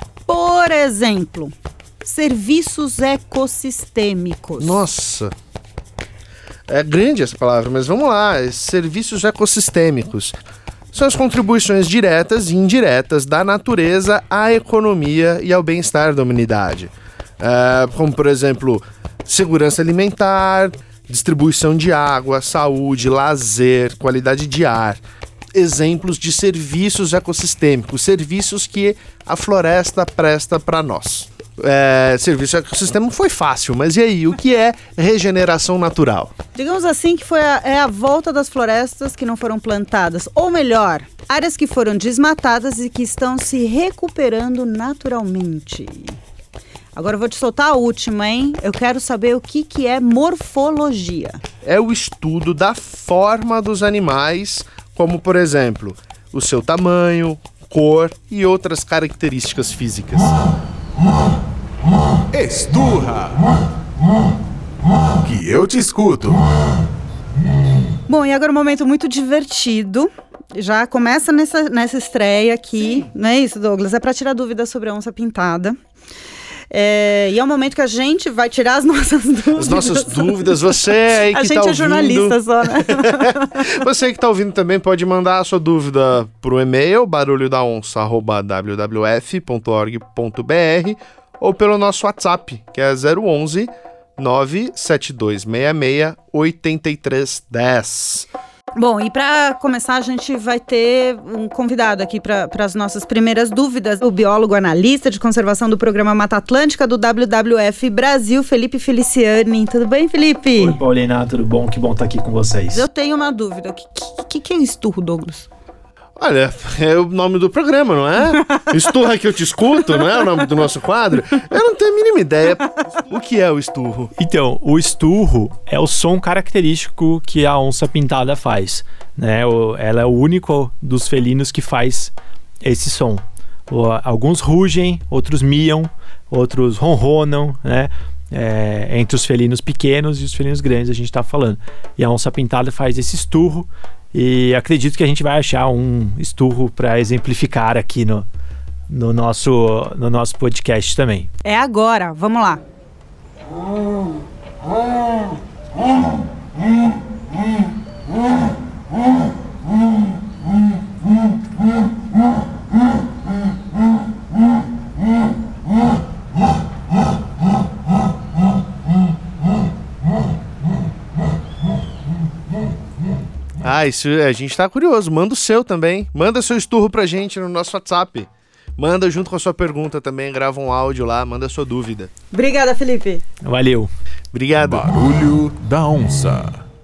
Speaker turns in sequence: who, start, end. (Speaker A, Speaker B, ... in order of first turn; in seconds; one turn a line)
Speaker A: 0.3-4.8
Speaker B: 4.6-5.3
Speaker B: 6.7-10.4
Speaker B: 10.9-25.0
Speaker B: 25.5-36.3
Speaker A: 36.5-46.2
Speaker A: 47.0-51.4
Speaker B: 51.6-60.4
Speaker C: 62.3-63.5
Speaker C: 65.2-66.5
Speaker A: 68.1-75.8
Speaker A: 76.7-83.7
Speaker B: 79.5-98.3
Speaker A: 98.8-110.8
Speaker D: 110.6-112.8
Speaker A: 112.7-115.5
Speaker B: 116.2-124.1
Speaker D: 124.2-148.3
Speaker D: 148.9-151.3
Speaker A: 151.4-152.6
Speaker B: 173.6-182.1
Speaker A: 182.3-183.2
Speaker D: 183.4-183.9
Speaker B: 184.3-184.9
Speaker C: 184.6-186.6